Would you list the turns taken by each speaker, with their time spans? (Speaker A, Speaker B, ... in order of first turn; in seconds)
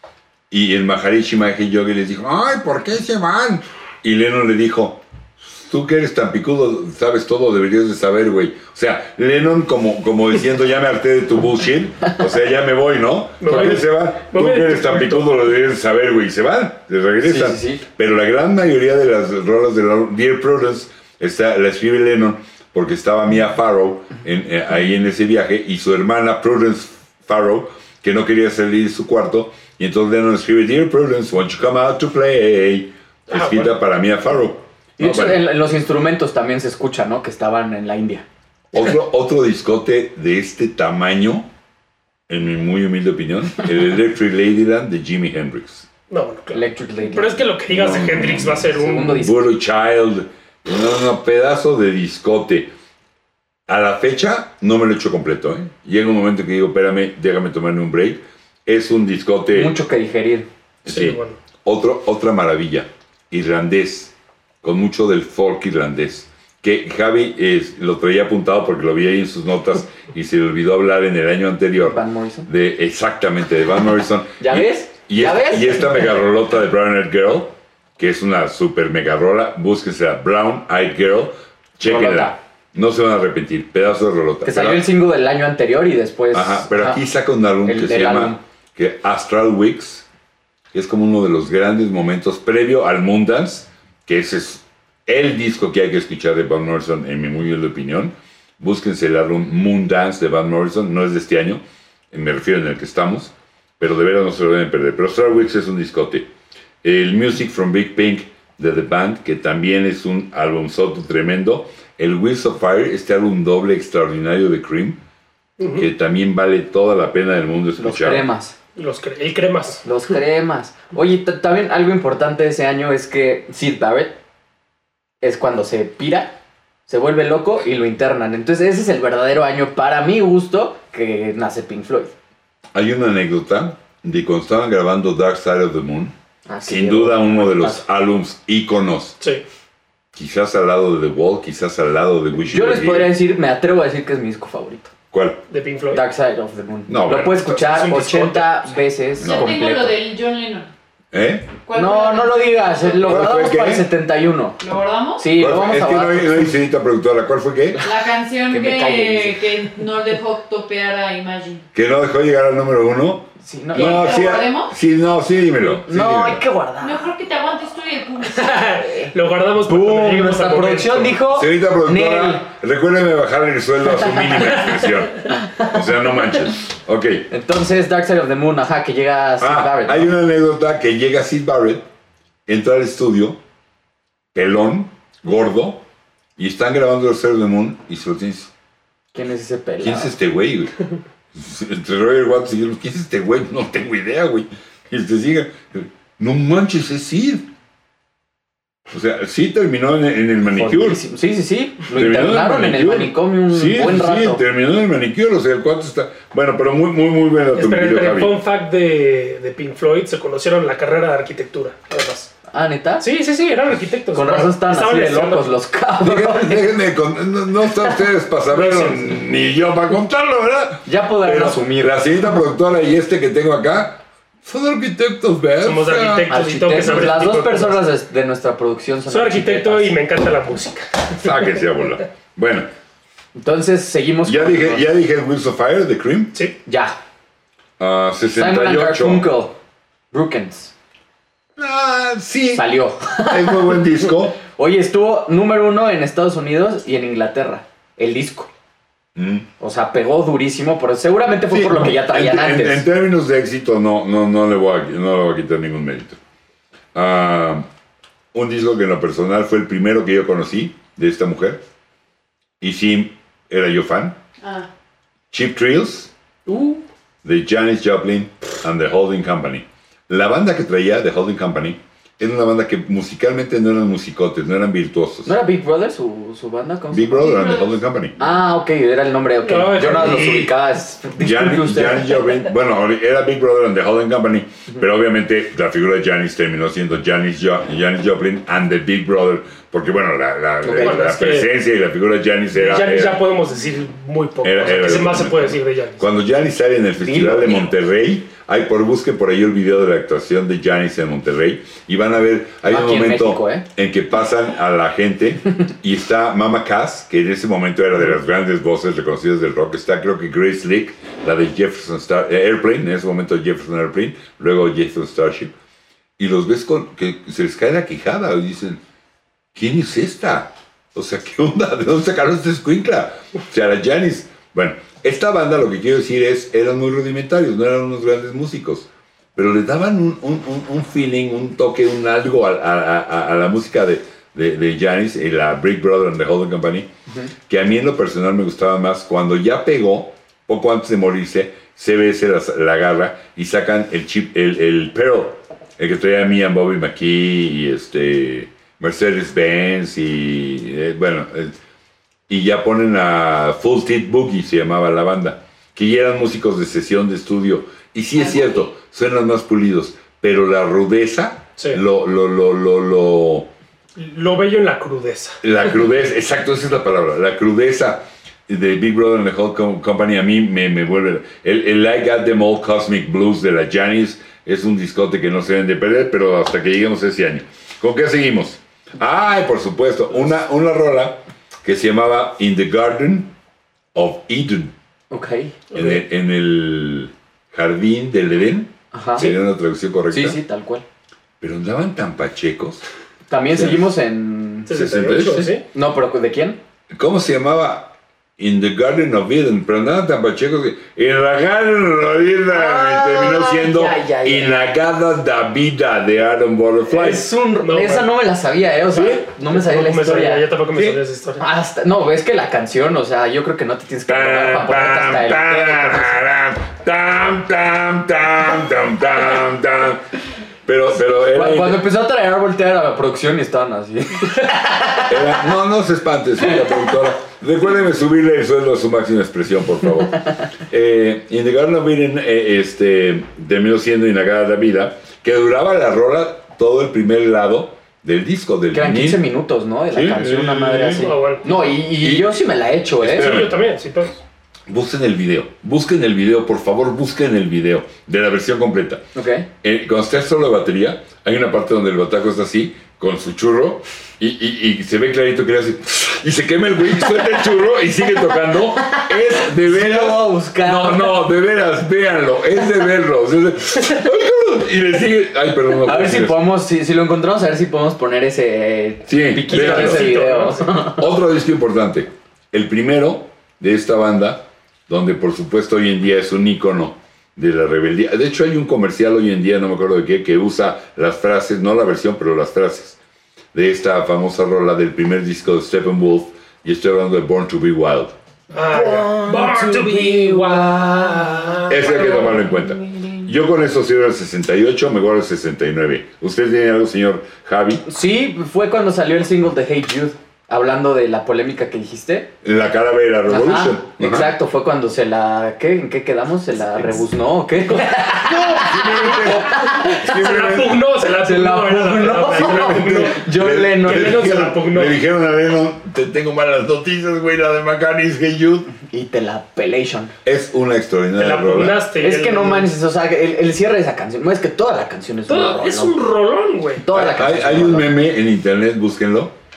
Speaker A: 0.5-35.5, 38.7-41.5, 42.3-45.9, 47.7-52.7, 53.7-59.8, 60.9-84.9, 86.3-90.0, 90.7-106.3, 106.8-115.0, 115.8-118.3, 132.7-136.1, 136.7-139.2, 140.2-143.1, 145.1-145.4, 146.9-147.5, 149.2-149.6, 151.1-151.5, 153.0-153.9, 155.3-157.8, 161.7-166.4, 171.3-177.3, 179.4-181.8, 182.5-183.4, 184.3-185.8, 186.4-188.5, 189.8-190.7, 191.3-197.5, 198.9-201.0, 201.9-208.4, 216.0-227.0, 231.1-232.7, 234.2-236.3, 237.8-239.3, 241.6-242.7, 243.3-244.4, 249.2-249.5, 251.5-256.2, 256.9-257.7, 258.3-261.6, 262.6-264.2, 265.3-266.1, 267.2-275.4, 276.9-278.2, 279.8-280.5, 281.2-293.2, 294.4-315.5, 316.2-318.8, 319.6-336.9, 337.5-351.6, 352.3-363.5, 365.4-383.3, 383.9-384.7, 385.7-390.4, 391.4-392.8, 393.5-393.9, 394.7-395.5, 396.9-407.2, 410.7-411.0, 414.1-420.0, 420.7-421.9, 425.1-439.3, 439.9-441.1, 442.0-442.4, 443.0-443.6, 444.7-449.0, 449.6-466.5, 469.1-470.1, 470.8-483.0, 483.5-488.1, 491.7-497.8, 502.4-504.4, 508.0-510.8, 512.3-518.7, 520.2-521.8, 526.9-529.3
Speaker B: 13.4-15.3, 33.3-33.7, 46.1-49.3, 60.9-61.4, 115.6-115.9, 118.8-119.8, 145.5-146.0, 147.1-148.6, 168.3-171.2, 207.6-212.3, 213.0-215.5, 218.5-219.2, 225.6-227.9, 229.1-231.2, 266.5-266.8, 279.4-280.5, 290.8-291.5, 292.5-296.0, 364.0-365.4, 385.7-386.0, 394.7-395.6, 407.6-408.1, 408.9-411.4, 440.9-441.5, 443.1-444.2, 469.5-470.8, 488.5-492.3, 509.9-515.0, 521.2-522.7, 525.3-526.9
Speaker C: 17.2-17.8, 35.0-38.2, 46.5-47.4, 48.7-49.4, 59.5-60.5, 71.8-72.5, 74.4-76.2, 81.8-82.4, 84.4-87.0, 87.6-88.4, 117.8-118.5, 119.8-124.2, 125.2-126.4, 126.9-132.1, 136.5-137.8, 142.4-144.9, 145.9-150.0, 151.7-154.6, 155.2-156.5, 158.5-159.8, 163.4-164.3, 165.9-167.1, 168.8-172.5, 177.3-180.1, 189.1-190.2, 200.5-204.4, 212.5-213.1, 214.1-216.7, 220.9-222.0, 226.3-230.0, 233.3-234.9, 236.7-237.0, 238.4-239.6, 240.1-240.7, 242.5-243.9, 244.4-248.5, 249.6-252.9, 275.2-277.3, 278.2-282.3, 290.6-291.0, 297.0-297.7, 302.6-303.6, 385.1-385.6, 388.9-389.3, 390.1-390.8, 393.3-396.6, 402.5-404.6, 406.9-410.4, 411.4-416.2, 421.1-425.1, 438.7-443.5, 449.1-449.5, 458.8-461.3, 465.8-471.1, 488.7-492.2, 492.8-493.1, 497.9-502.3, 503.3-510.0, 511.2-514.5, 518.8-520.1, 522.0-525.9, 526.8-527.9
Speaker D: 149.2-150.7, 151.7-153.3, 154.6-155.3, 157.8-161.7, 163.7-164.7, 166.8-168.8, 264.4-264.7, 277.1-277.8, 358.2-358.7